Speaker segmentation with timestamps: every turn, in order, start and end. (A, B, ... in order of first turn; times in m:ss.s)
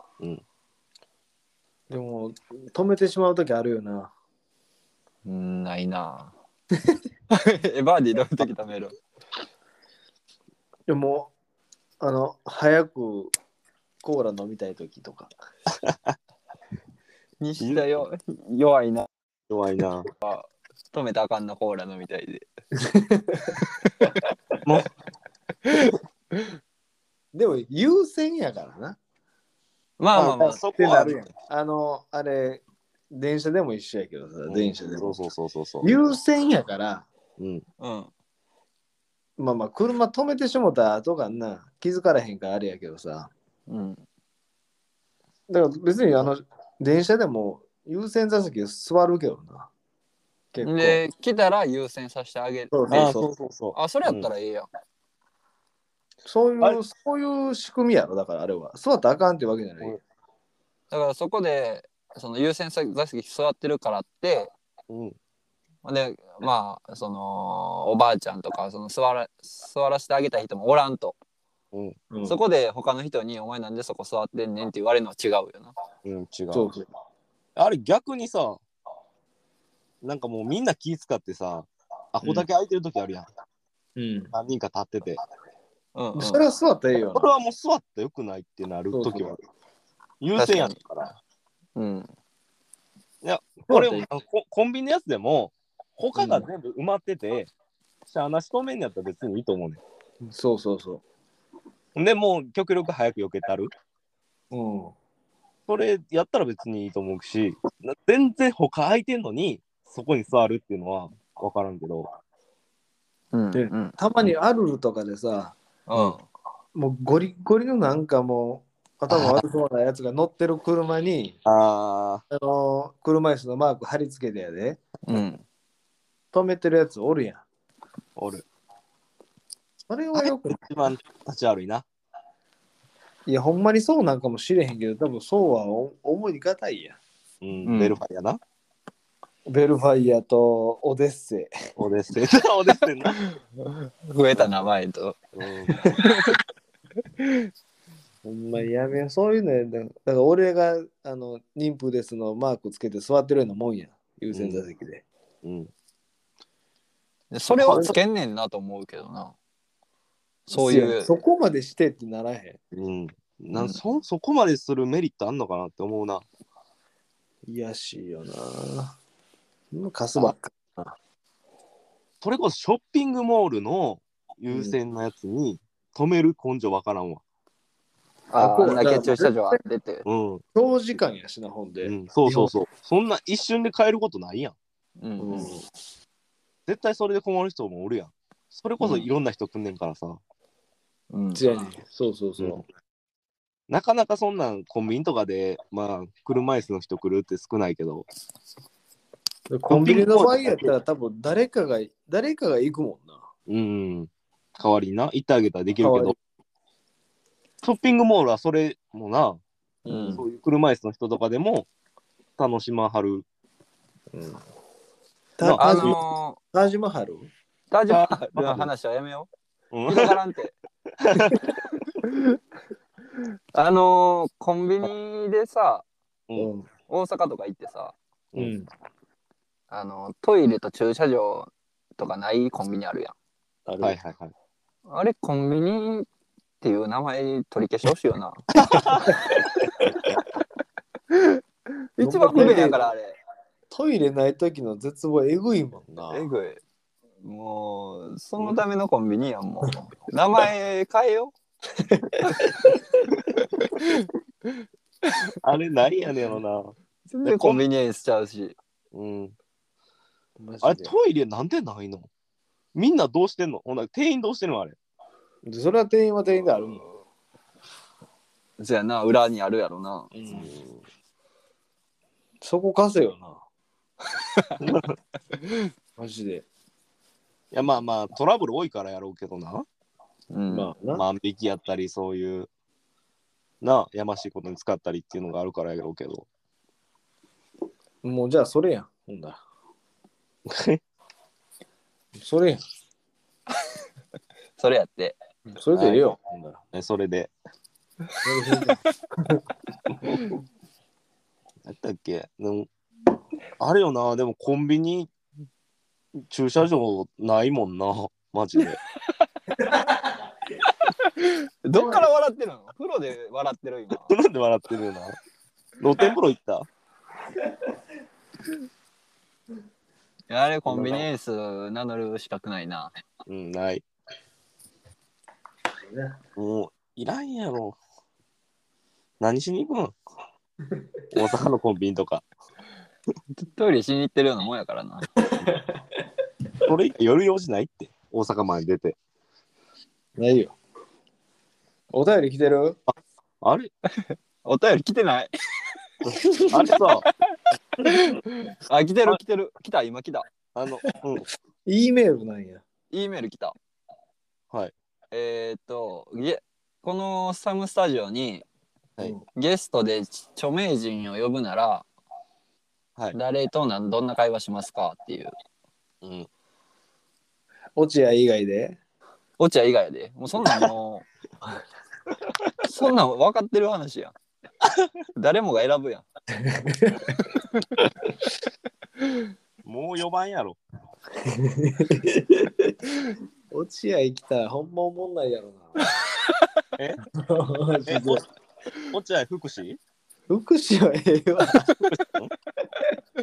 0:01.9-0:04.1 A
0:05.2-0:06.3 B
0:07.3-0:09.0 B
0:10.9-0:11.3 A
0:12.0-0:13.3 A
0:14.0-0:15.3 A
0:15.7-0:16.2 C
0:17.4-0:19.1 B
0:17.6-0:17.9 C
0:19.5-0:20.1 C
0:20.2-0:22.4 B
0:22.8-0:23.6 A
0:27.3-0:29.0 A
0:30.0-0:30.6 B
0:30.2-0:31.2 C
0:30.7-0:35.2 A
0:34.5-0:35.9 C
0:35.8-0:37.1 A
0:37.4-0:37.6 C
0:37.8-0:38.1 B
0:39.4-0:43.3 A
0:43.7-0:44.0 B
0:45.5-0:49.7 A
0:50.5-0:51.0 A
0:50.6-0:53.0 B
0:52.7-0:53.3 A
0:52.9-0:54.3 C
0:53.7-0:54.7 B
0:56.2-1:00.0 A
1:00.9-1:04.5 B
1:04.9-1:05.2 C
1:05.8-1:11.2 B
1:11.7-1:12.0 C
1:12.1-1:12.4 A
1:12.2-1:15.7 B
1:16.0-1:16.7 C
1:16.5-1:16.8 A
1:17.6-1:18.6 C
1:20.0-1:23.3 C
1:24.0-1:24.3 A
1:24.3-1:25.2 C
1:26.0-1:26.4 B
1:26.2-1:27.3 A
1:27.1-1:29.4 C
1:28.9-1:29.4 A
1:30.2-1:31.2 C
1:30.4-1:30.8 B
1:31.8-1:32.1 B
1:33.2-1:37.5 C
1:33.7-1:34.1 A
1:36.2-1:36.5 A
1:38.1-1:39.8 C
1:40.2-1:41.0 A
1:42.0-1:43.7 C
1:44.5-1:45.0 A
1:45.7-1:52.1 C
1:53.3-1:54.0 B
1:53.5-1:55.6 A
1:55.9-1:56.2 B
1:56.8-2:01.4 A
2:01.4-2:02.2 C
2:02.3-2:04.8 A
2:05.1-2:05.4 B
2:06.3-2:07.4 A
2:08.2-2:08.4 C
2:09.9-2:10.6 A
2:10.2-2:11.8 C
2:13.3-2:17.0 A
2:17.4-2:18.4 C
2:17.7-2:18.0 B
2:19.5-2:21.5 A
2:21.8-2:23.2 C
2:23.7-2:25.2 B
2:24.3-2:24.7 C
2:25.4-2:25.8 C
2:26.0-2:26.4 B
2:27.2-2:27.5 B
2:28.2-2:35.0 A
2:34.3-2:34.6 C
2:35.4-2:35.7 C
2:37.3-2:39.4 B
2:37.5-2:38.0 C
2:40.5-2:41.1 B
2:40.5-2:42.6 A
2:42.7-2:46.2 C
2:43.5-2:43.8 B
2:47.5-2:49.0 A
2:49.7-2:51.0 A
2:52.2-2:57.2 C
2:54.5-2:54.8 A
2:58.3-3:00.0 B
2:58.4-2:59.6 A
3:00.0-3:00.4 C
3:00.6-3:02.5 A
3:01.8-3:04.6 C
3:05.0-3:05.5 B
3:05.2-3:05.6 A
3:06.7-3:10.2 C
3:08.8-3:09.1 B
3:11.1-3:11.4 B
3:11.4-3:12.6 A
3:13.7-3:18.1 C
3:19.5-3:23.2 A
3:19.7-3:20.7 C
3:23.5-3:26.2 C
3:25.8-3:26.2 A
3:27.6-3:29.4 C
3:29.9-3:30.2 A
3:30.1-3:31.7 C
3:32.4-3:33.2 C
3:34.1-3:34.4 A
3:35.4-3:36.0 A
3:35.4-3:36.0 C
3:35.6-3:36.4 B
3:36.5-3:37.3 A
3:37.7-3:39.3 B
3:37.9-3:38.7 C
3:39.7-3:40.2 C
3:39.9-3:40.6 B
3:41.0-3:41.4 C
3:43.5-3:45.8 B
3:46.4-3:46.7 A
3:46.9-3:48.0 B
3:48.4-3:48.7 A
3:49.7-3:53.1 B
3:53.7-3:53.9 A
3:53.8-3:54.3 C
3:54.9-3:56.1 B
3:56.6-3:58.9 B
3:58.5-3:59.2 C
4:01.1-4:01.4 B
4:02.0-4:03.2 B
4:02.0-4:02.9 A
4:03.7-4:06.3 A
4:06.1-4:06.6 B
4:07.2-4:11.3 B
4:11.9-4:12.6 A
4:15.4-4:17.6 C
4:17.1-4:18.6 B
4:18.9-4:19.4 C
4:20.4-4:20.9 A
4:20.6-4:22.1 C
4:22.7-4:24.8 C
4:25.4-4:26.8 A
4:28.6-4:30.1 B
4:30.1-4:30.5 A
4:30.3-4:30.8 C
4:32.4-4:33.4 A
4:34.6-4:35.0 C
4:36.0-4:36.5 A
4:37.5-4:39.7 C
4:40.3-4:40.7 B
4:40.5-4:41.0 A
4:40.9-4:42.5 C
4:43.6-4:46.3 C
4:48.0-4:49.4 A
4:50.5-4:50.8 C
4:52.2-4:52.6 A
4:54.6-4:55.2 B
4:55.5-4:56.6 A
4:55.8-4:56.0 C
4:56.7-4:57.3 C
4:58.2-4:59.4 A
5:01.6-5:02.7 C
5:03.6-5:05.1 C
5:06.2-5:08.8 C
5:09.6-5:10.0 A
5:10.8-5:14.1 B
5:11.8-5:12.0 A
5:14.0-5:15.2 C
5:15.8-5:16.7 C
5:20.3-5:22.9 B
5:20.7-5:21.1 C
5:23.3-5:23.8 C
5:25.8-5:26.2 A
5:26.4-5:27.8 C
5:29.2-5:30.0 C
5:31.1-5:32.2 C
5:33.4-5:35.1 B
5:35.4-5:35.8 A
5:36.7-5:39.0 C
5:40.2-5:40.6 A
5:41.9-5:42.8 A
5:43.4-5:43.7 C
5:44.1-5:45.3 B
5:46.0-5:47.1 C
5:46.2-5:46.7 A
5:47.8-5:50.3 B
5:50.6-5:51.2 C
5:51.7-5:52.6 A
5:52.9-5:53.6 B
5:55.1-5:58.5 B
5:59.4-6:01.9 B
6:03.1-6:05.3 B
6:06.0-6:06.3 C
6:07.8-6:08.8 A
6:09.4-6:11.0 B
6:10.4-6:10.7 C
6:12.6-6:14.2 B
6:15.2-6:16.0 B
6:16.4-6:17.2 A
6:17.4-6:17.6 B
6:19.6-6:20.6 C
6:21.2-6:22.8 A
6:23.5-6:26.0 A
6:26.8-6:27.0 C
6:27.2-6:28.2 A
6:27.9-6:28.2 C
6:28.9-6:29.8 C
6:30.3-6:31.7 A
6:32.0-6:32.3 C